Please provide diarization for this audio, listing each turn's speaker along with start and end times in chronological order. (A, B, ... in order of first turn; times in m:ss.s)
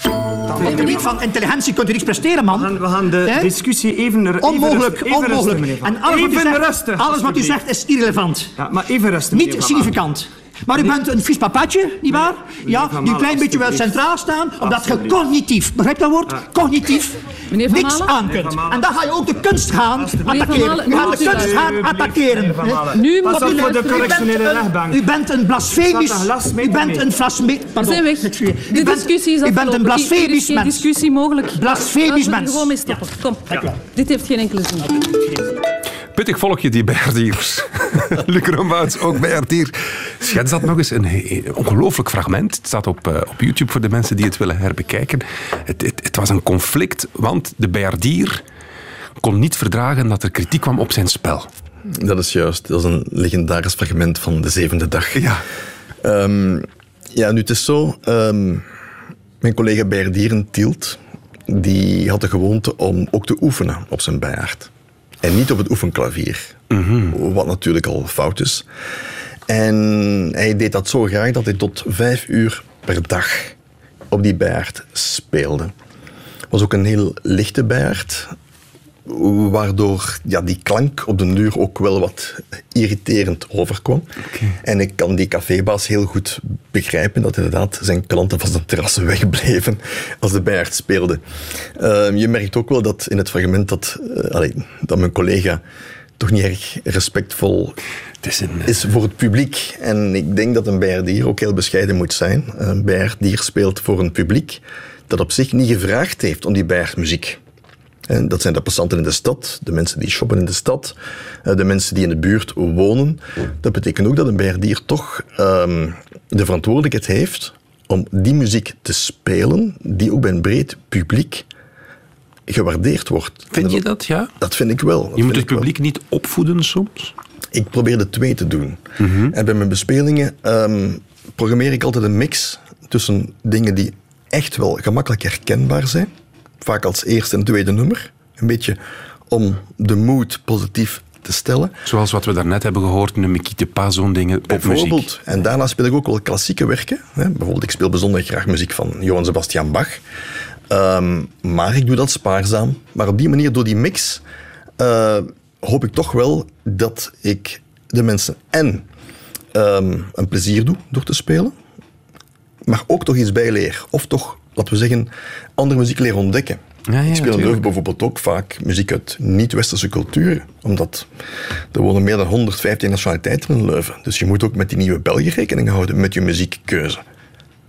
0:00.5-0:01.1 A
0:00.5-0:03.6 B
0:02.5-0:07.6 A
0:04.4-0:08.5 B
0:08.6-0:10.0 A
0:09.3-0:30.9 B
0:12.1-0:14.0 A
0:14.6-0:15.2 A
0:17.5-0:18.2 C
0:18.2-0:18.9 A
0:20.0-0:25.1 A
0:20.2-0:21.8 C
0:22.9-0:24.3 C
0:25.8-0:27.1 A
0:27.8-0:35.1 C
0:31.5-0:33.7 B
0:36.1-0:48.4 D
0:49.2-0:51.5 D
0:51.9-0:55.3 E
0:55.1-0:55.4 D
0:56.0-0:58.7 E
0:59.4-1:04.7 E
1:05.2-1:08.7 E
1:06.7-1:07.2 D
1:09.5-1:13.6 E
1:14.1-1:15.7 E
1:16.5-1:18.3 E
1:19.0-1:24.0 E
1:24.3-1:24.6 D
1:24.6-1:35.6 E
1:36.2-1:37.8 E
1:38.2-1:38.7 D
1:38.6-1:47.4 E
1:48.1-2:01.5 E
2:02.5-2:03.8 E
2:03.5-2:04.3 D
2:04.4-2:05.7 E
2:05.2-2:07.1 D
2:07.5-2:16.1 E
2:09.0-2:09.3 D
2:16.6-2:21.8 E
2:21.8-2:25.1 D
2:24.5-2:30.0 E
2:30.7-2:34.2 E
2:34.8-2:38.8 E
2:39.5-2:41.5 E
2:42.6-2:51.1 E
2:46.9-2:47.7 D
2:51.7-2:57.0 E